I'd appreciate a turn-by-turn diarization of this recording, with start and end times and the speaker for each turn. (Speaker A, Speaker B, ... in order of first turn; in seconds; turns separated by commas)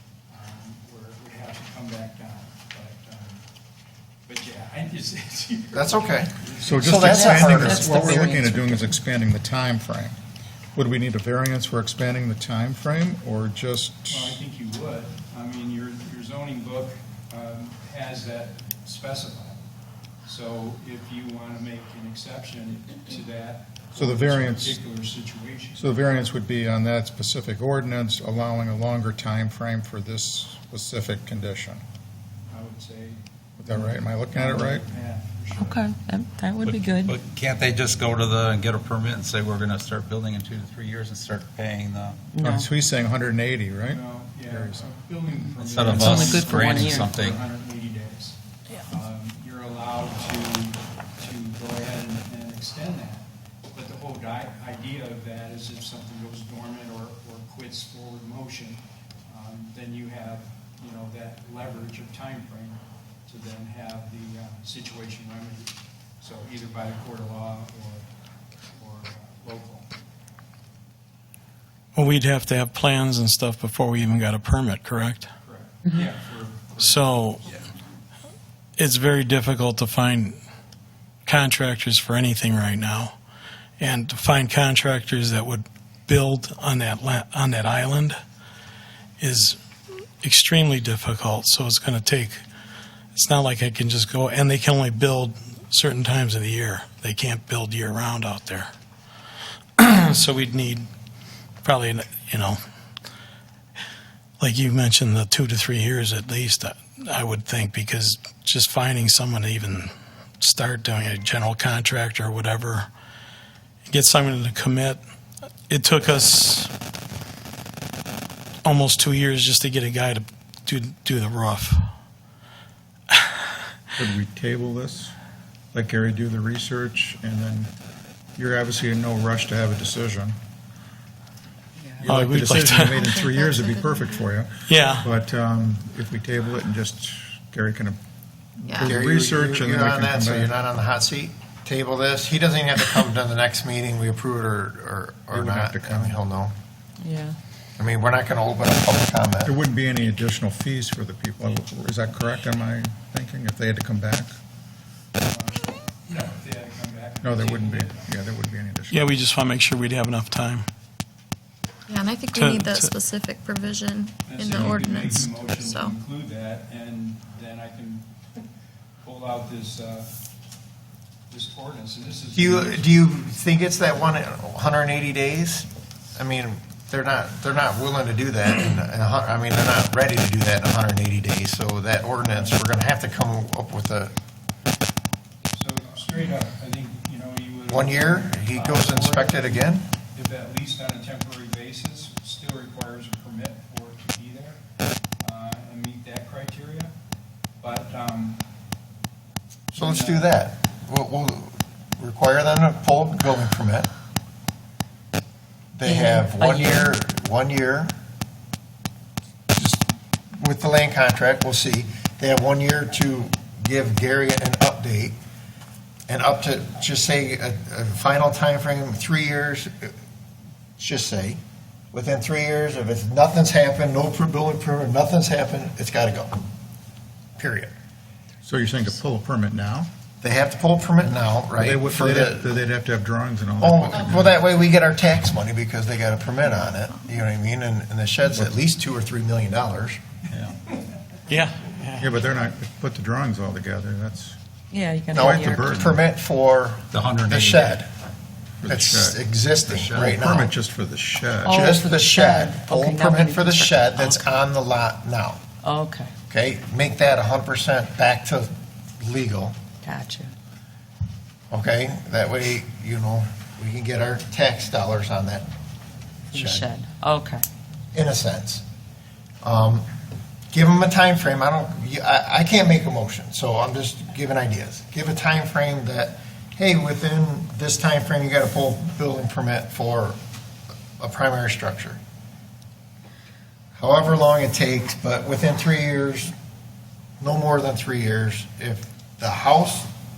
Speaker A: 0.3-3.4, Speaker A: 4.2-7.8, Speaker B: 5.7-8.3, Speaker C: 6.6-10.2, Speaker D: 7.3-8.8, Speaker C: 10.7-14.4, Speaker A: 14.1-19.6, Speaker A: 20.2-25.9, Speaker C: 23.9-24.8, Speaker C: 25.8-31.8, Speaker A: 32.5-33.2, Speaker C: 33.6-34.9, Speaker A: 33.8-35.8, Speaker D: 35.6-37.1, Speaker E: 36.6-42.2, Speaker D: 42.3-42.7, Speaker C: 42.4-44.9, Speaker A: 43.9-68.1, Speaker E: 45.6-47.4, Speaker D: 46.0-47.1, Speaker A: 68.7-69.9, Speaker F: 71.9-75.3, Speaker A: 75.4-77.1, Speaker F: 76.8-77.6, Speaker F: 78.8-80.4, Speaker F: 81.2-83.2, Speaker F: 83.8-88.2, Speaker F: 89.2-89.6, Speaker F: 90.2-92.4, Speaker F: 93.1-98.7, Speaker F: 99.8-100.9, Speaker F: 101.6-102.6, Speaker F: 104.4-112.9, Speaker F: 113.9-115.0, Speaker F: 115.7-116.7, Speaker F: 118.6-121.9, Speaker C: 124.0-125.1, Speaker C: 125.7-127.7, Speaker C: 128.3-130.4, Speaker C: 132.0-138.0, Speaker F: 132.1-133.0, Speaker G: 133.0-134.3, Speaker F: 134.7-135.1, Speaker C: 138.6-140.5, Speaker G: 138.7-138.9, Speaker B: 138.8-146.5, Speaker C: 145.3-146.2, Speaker D: 147.0-147.4, Speaker B: 147.8-149.6, Speaker C: 149.4-154.3, Speaker A: 155.2-158.1, Speaker C: 157.2-159.1, Speaker F: 158.9-160.7, Speaker G: 161.9-165.9, Speaker F: 162.3-162.9, Speaker A: 164.2-168.1, Speaker A: 169.0-170.1, Speaker A: 171.3-172.9, Speaker B: 172.3-184.1, Speaker A: 182.2-182.6, Speaker A: 185.5-194.6, Speaker B: 187.7-189.8, Speaker A: 195.2-196.9, Speaker A: 197.6-198.4, Speaker A: 199.7-200.3, Speaker B: 199.7-203.9, Speaker B: 205.7-207.9, Speaker D: 205.8-207.0, Speaker B: 209.5-215.2, Speaker B: 216.1-219.9, Speaker B: 220.8-221.4, Speaker B: 221.9-226.4, Speaker B: 227.4-227.7, Speaker C: 228.4-229.9, Speaker B: 230.2-232.5, Speaker C: 231.6-234.3, Speaker B: 233.6-240.0, Speaker F: 241.3-242.1, Speaker C: 242.0-244.4, Speaker D: 244.7-245.7, Speaker C: 245.1-246.0, Speaker B: 245.1-247.9, Speaker E: 246.9-247.8, Speaker C: 248.6-251.6, Speaker B: 248.7-250.5, Speaker E: 249.7-250.2, Speaker D: 251.4-254.2, Speaker B: 251.4-255.4, Speaker D: 255.6-256.1, Speaker B: 256.3-259.6, Speaker D: 259.8-260.3, Speaker B: 261.5-265.5, Speaker D: 266.3-267.4, Speaker B: 266.3-266.7, Speaker B: 267.9-268.6, Speaker B: 269.4-269.9, Speaker B: 270.5-280.2, Speaker B: 281.0-282.0, Speaker B: 283.8-286.3, Speaker B: 287.2-289.9